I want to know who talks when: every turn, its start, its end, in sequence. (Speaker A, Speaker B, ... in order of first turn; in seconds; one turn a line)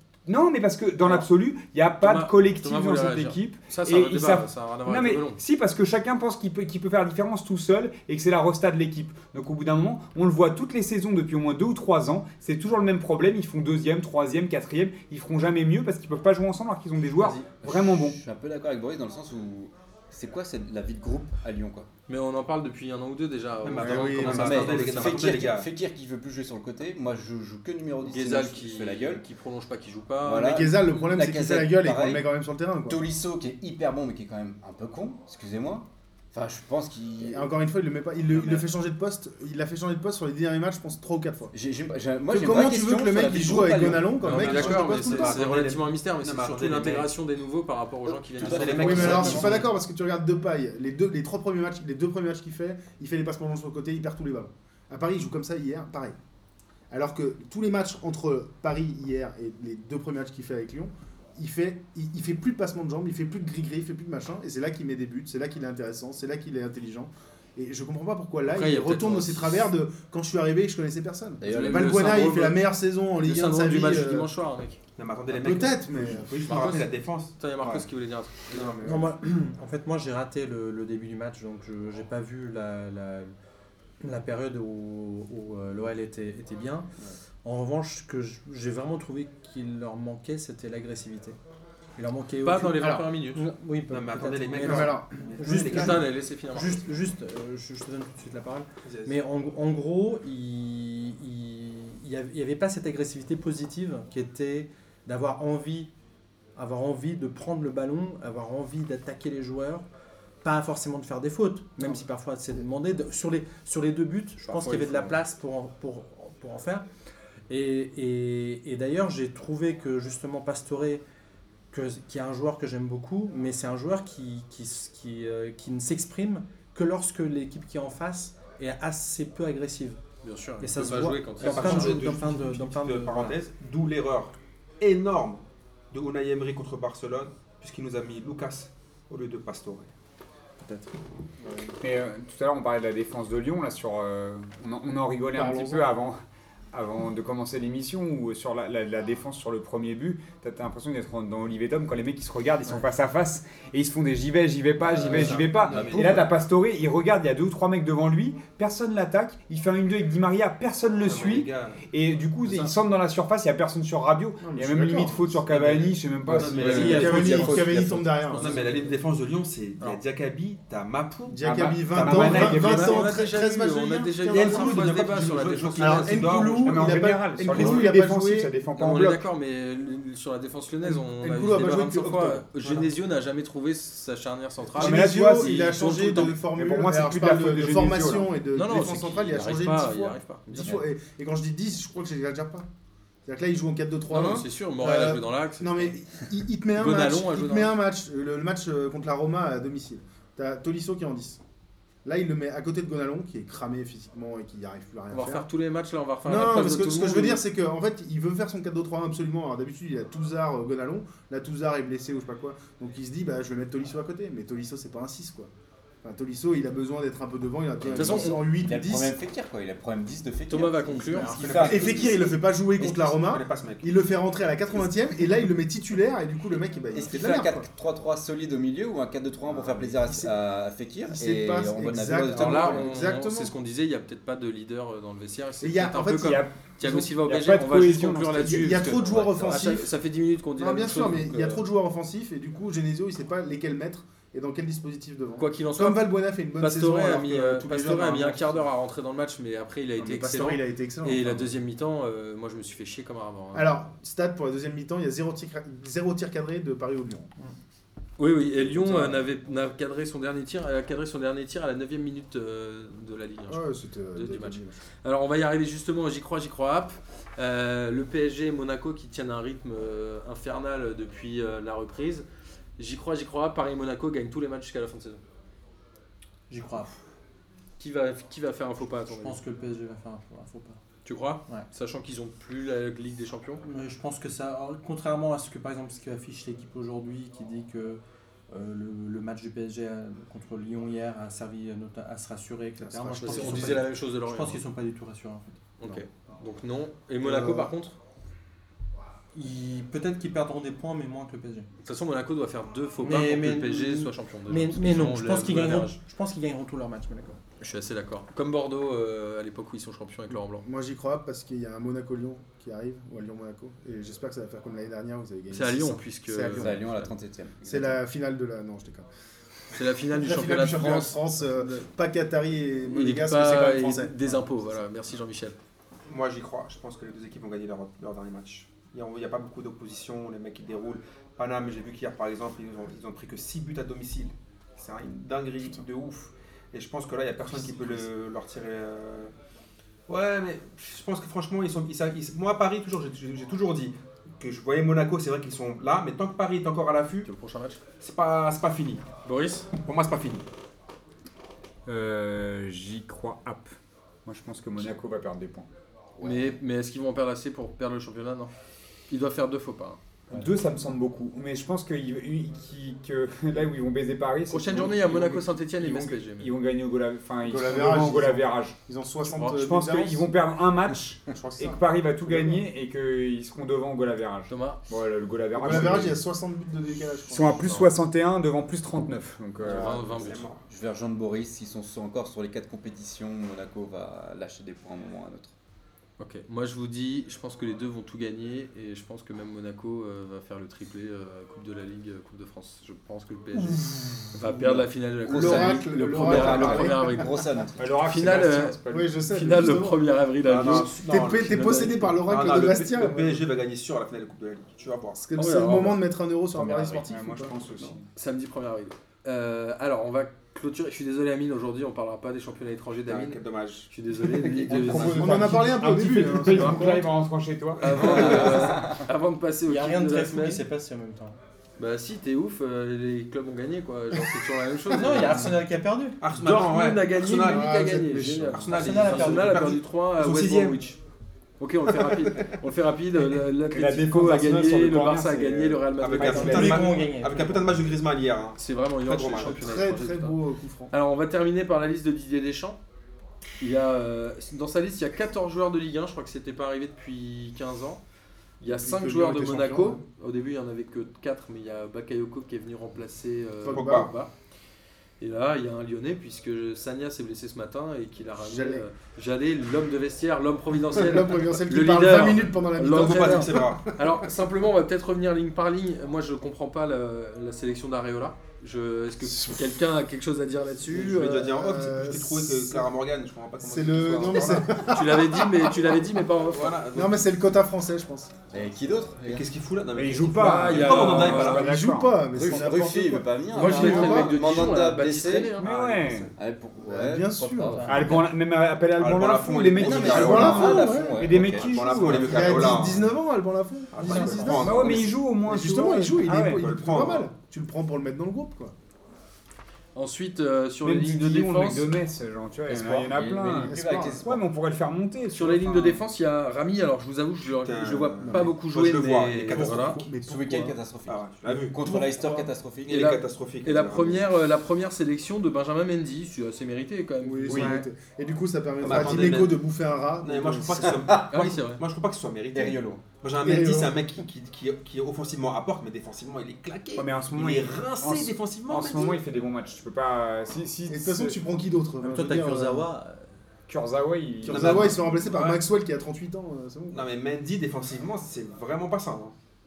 Speaker A: 0.2-18.2
Speaker B: 2.0-5.4
Speaker B: 17.2-17.4
Speaker C: 17.4-21.9
Speaker B: 22.1-25.3
Speaker D: 23.6-25.7
Speaker E: 23.8-24.7
Speaker C: 24.2-29.2
Speaker B: 28.0-30.7
Speaker C: 30.2-32.3
Speaker E: 30.4-33.0
Speaker C: 32.9-37.5
Speaker E: 37.2-41.5
Speaker C: 38.3-38.6
Speaker C: 41.5-44.3
Speaker E: 42.3-45.4
Speaker D: 44.1-47.1
Speaker B: 44.2-49.7
Speaker C: 48.3-49.7
Speaker D: 48.4-49.5
Speaker E: 48.7-56.1
Speaker E: 56.9-74.3
Speaker B: 68.5-69.7
Speaker C: 71.4-72.3
Speaker B: 71.4-72.7
Speaker B: 73.2-74.8
Speaker D: 75.0-77.8
Speaker E: 75.3-76.8
Speaker B: 76.5-78.8
Speaker E: 78.5-79.2
Speaker D: 78.5-78.9
Speaker F: 78.8-83.3
Speaker F: 84.0-86.9
Speaker F: 87.4-91.4
Speaker F: 92.0-105.9
Speaker B: 92.4-93.5
Speaker E: 92.8-93.0
Speaker D: 93.9-96.1
Speaker E: 94.6-95.2
Speaker B: 95.5-96.8
Speaker D: 98.8-99.2
Speaker F: 106.5-109.8
Speaker F: 110.4-116.9
Speaker B: 114.5-115.1
Speaker F: 117.5-121.0
Speaker F: 121.7-130.0
Speaker B: 130.2-132.0
Speaker F: 130.6-133.4
Speaker D: 131.0-139.9
Speaker F: 140.6-140.9
Speaker E: 141.4-141.8
Speaker A: 141.8-146.2
Speaker E: 145.3-145.9
Speaker A: 146.7-167.8
Speaker D: 154.9-156.3
Speaker C: 154.9-156.2
Speaker D: 161.0-161.8
Speaker E: 164.4-165.4
Speaker D: 165.5-167.5
Speaker C: 166.3-168.1
Speaker E: 166.6-168.6
Speaker B: 166.7-167.6
Speaker B: 168.3-168.9
Speaker D: 168.3-172.8
Speaker E: 171.3-174.9
Speaker A: 171.4-173.2
Speaker B: 172.2-176.5
Speaker D: 174.3-176.8
Speaker E: 175.8-178.5
Speaker A: 176.6-179.2
Speaker B: 177.5-177.8
Speaker B: 178.8-186.4
Speaker E: 180.8-182.5
Speaker A: 184.8-188.3
Speaker E: 184.8-192.7
Speaker B: 188.5-190.8
Speaker E: 193.2-201.4
Speaker B: 194.1-195.9
Speaker B: 196.8-197.8
Speaker E: 202.0-205.5
Speaker B: 205.1-207.4
Speaker E: 206.2-215.5
Speaker E: 216.0-219.1
Speaker C: 217.8-223.0
Speaker B: 217.9-218.5
Speaker B: 220.5-221.9
Speaker F: 221.1-221.7
Speaker D: 221.4-222.2
Speaker E: 221.6-227.7
Speaker D: 222.8-223.9
Speaker C: 226.9-233.0
Speaker E: 229.4-230.3
Speaker E: 231.1-233.5
Speaker B: 232.3-241.6
Speaker E: 235.6-236.4
Speaker A: 236.2-239.0
Speaker E: 238.4-239.9
Speaker E: 240.6-248.6
Speaker B: 245.4-253.7
Speaker E: 250.0-251.5
Speaker E: 253.5-257.3
Speaker B: 258.2-272.2
Speaker E: 258.6-259.2
Speaker E: 263.5-264.8
Speaker B: 272.8-275.2
Speaker F: 276.5-277.0
Speaker B: 277.8-279.4
Speaker F: 279.2-280.8
Speaker B: 281.0-283.6
Speaker F: 283.6-295.5
Speaker E: 292.8-293.8
Speaker B: 293.1-294.6
Speaker B: 295.8-297.9
Speaker E: 297.2-297.7
Speaker F: 299.3-301.7
Speaker B: 301.8-306.0
Speaker F: 303.0-307.4
Speaker B: 307.6-310.6
Speaker E: 310.6-317.0
Speaker B: 315.5-317.1
Speaker C: 316.6-318.0
Speaker E: 317.6-319.1
Speaker B: 319.7-321.9
Speaker E: 320.1-324.3
Speaker B: 322.9-325.6
Speaker D: 326.1-339.3
Speaker D: 340.1-347.3
Speaker B: 347.2-347.8
Speaker D: 348.0-349.1
Speaker B: 349.2-349.7
Speaker D: 349.8-350.4
Speaker A: 351.9-353.7
Speaker A: 354.2-355.7
Speaker C: 356.2-356.6
Speaker B: 356.2-358.5
Speaker B: 359.1-360.0
Speaker A: 360.3-368.8
Speaker B: 364.5-366.5
Speaker E: 367.4-370.3
Speaker B: 369.3-369.6
Speaker A: 369.5-376.2
Speaker E: 371.3-372.6
Speaker B: 374.5-374.8
Speaker E: 375.5-377.6
Speaker A: 377.3-380.2
Speaker B: 377.6-377.9
Speaker B: 379.6-380.4
Speaker D: 379.8-380.6
Speaker C: 380.7-385.5
Speaker B: 386.2-397.3
Speaker E: 393.6-397.3
Speaker C: 395.3-397.8
Speaker A: 397.8-399.5
Speaker B: 398.0-402.2
Speaker E: 398.9-400.0
Speaker D: 400.4-405.2
Speaker E: 400.6-403.4
Speaker E: 405.2-407.6
Speaker B: 405.3-406.0
Speaker A: 406.6-408.1
Speaker B: 408.1-413.4
Speaker D: 413.1-415.5
Speaker B: 413.9-415.3
Speaker A: 414.7-418.9
Speaker E: 415.1-417.1
Speaker B: 417.8-420.6
Speaker C: 418.4-418.7
Speaker F: 419.6-421.4
Speaker B: 421.8-425.5
Speaker F: 424.9-426.2
Speaker D: 426.2-427.9
Speaker B: 426.3-431.0
Speaker E: 427.4-428.7
Speaker D: 428.5-430.9
Speaker F: 428.7-429.7
Speaker B: 431.6-436.8
Speaker D: 432.1-432.5
Speaker A: 433.7-436.9
Speaker D: 436.0-439.7
Speaker F: 436.2-437.9
Speaker B: 438.6-440.4
Speaker E: 439.4-440.9
Speaker B: 440.9-442.8
Speaker B: 443.6-448.0
Speaker B: 448.6-454.3
Speaker E: 448.6-450.0
Speaker E: 453.6-454.1
Speaker D: 453.7-454.1
Speaker B: 455.2-471.5
Speaker E: 458.4-458.9
Speaker E: 460.9-463.8
Speaker D: 462.9-463.9
Speaker E: 469.3-469.6
Speaker D: 470.9-474.9
Speaker E: 471.3-472.9
Speaker E: 473.6-475.7
Speaker B: 474.8-476.8
Speaker D: 476.5-477.3
Speaker E: 476.9-478.3
Speaker C: 478.5-479.5
Speaker D: 479.2-481.7
Speaker A: 479.9-482.3
Speaker B: 480.3-481.6
Speaker E: 481.2-484.8
Speaker C: 482.3-488.2
Speaker B: 483.5-486.1
Speaker A: 485.6-486.3
Speaker E: 486.8-488.1
Speaker A: 487.8-492.8
Speaker D: 488.9-490.8
Speaker C: 489.8-492.2
Speaker E: 489.8-491.4
Speaker D: 491.5-493.1
Speaker E: 492.1-498.7
Speaker D: 493.9-495.2
Speaker F: 494.0-494.6
Speaker A: 494.5-496.7
Speaker D: 496.5-497.3
Speaker B: 499.9-501.9
Speaker A: 500.8-506.0
Speaker C: 502.7-504.4
Speaker E: 503.7-504.2
Speaker B: 505.3-510.0
Speaker D: 507.6-510.1
Speaker E: 508.2-508.5
Speaker E: 509.5-510.7
Speaker C: 510.2-513.1
Speaker D: 511.1-511.8
Speaker E: 511.8-512.5
Speaker D: 512.9-514.3
Speaker B: 512.9-517.9
Speaker E: 517.2-521.0
Speaker A: 517.5-517.8
Speaker D: 518.8-519.6
Speaker D: 520.2-529.2
Speaker C: 520.8-521.5
Speaker B: 521.3-521.8
Speaker C: 522.5-523.0
Speaker E: 523.4-524.0
Speaker A: 527.0-531.4
Speaker E: 530.9-532.9
Speaker F: 532.0-533.3
Speaker A: 533.7-535.0
Speaker E: 534.4-537.1
Speaker D: 534.5-535.6
Speaker D: 536.9-539.3